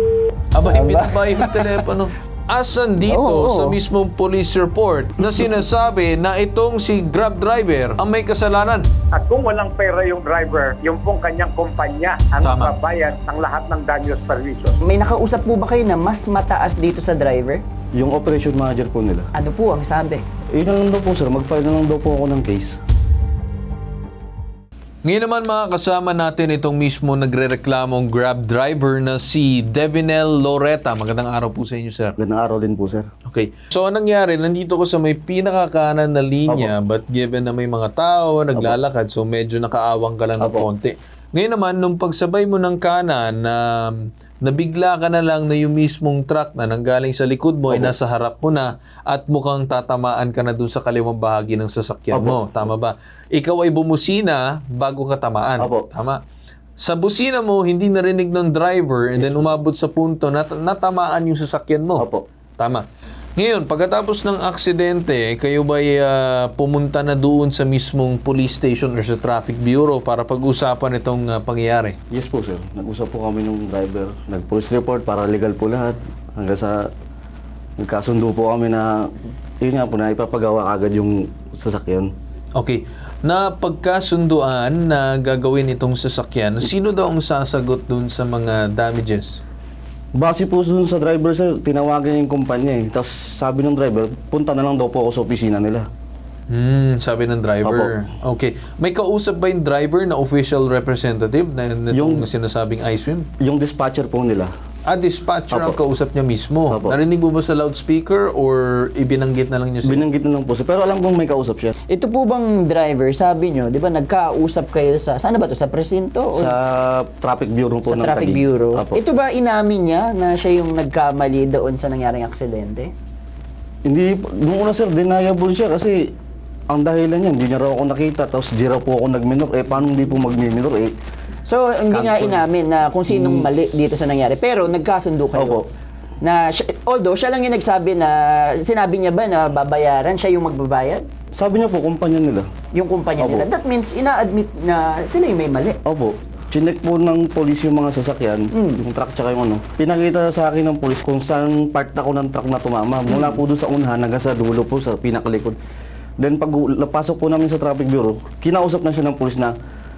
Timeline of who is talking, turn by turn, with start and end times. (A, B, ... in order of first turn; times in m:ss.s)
0:00.5-0:08.8 A
0:00.6-0:01.8 B
0:03.1-0:03.8 B
0:09.1-0:14.8 C
0:12.4-0:12.7 A
0:14.8-0:17.6 B
0:17.9-0:19.3 D
0:19.3-0:20.2 B
0:20.5-0:22.8 D
0:25.0-0:32.2 A
0:32.2-0:33.1 D
0:33.3-0:56.2 A
0:40.4-0:40.7 D
0:52.1-0:52.4 D
0:55.6-0:55.8 D
0:56.8-1:02.0 A
0:59.2-0:59.5 D
1:02.0-1:02.2 D
1:02.6-1:02.8 A
1:03.4-1:12.0 A
1:12.1-1:16.9 D
1:17.8-1:22.1 D
1:22.6-1:29.4 A
1:30.1-1:35.9 D
1:36.5-1:43.3 A
1:37.6-1:37.9 D
1:41.9-1:42.3 D
1:43.4-1:44.5 D
1:44.8-1:50.0 A
1:45.5-1:45.8 D
1:46.7-1:47.0 D
1:49.8-1:51.7 D
1:51.9-1:56.5 B
1:56.3-1:59.0 D
1:57.8-2:02.9 B
2:03.8-2:06.1 D
2:06.7-2:10.9 D
2:11.4-2:15.6 B
2:11.9-2:12.4 D
2:13.1-2:13.4 D
2:15.4-2:15.6 D
2:16.2-2:21.0 B
2:21.3-2:22.5 D
2:22.7-2:25.8 B
2:23.2-2:23.4 D
2:25.8-2:35.6 D
2:28.5-2:28.8 B
2:33.1-2:33.4 B
2:36.2-2:39.5 D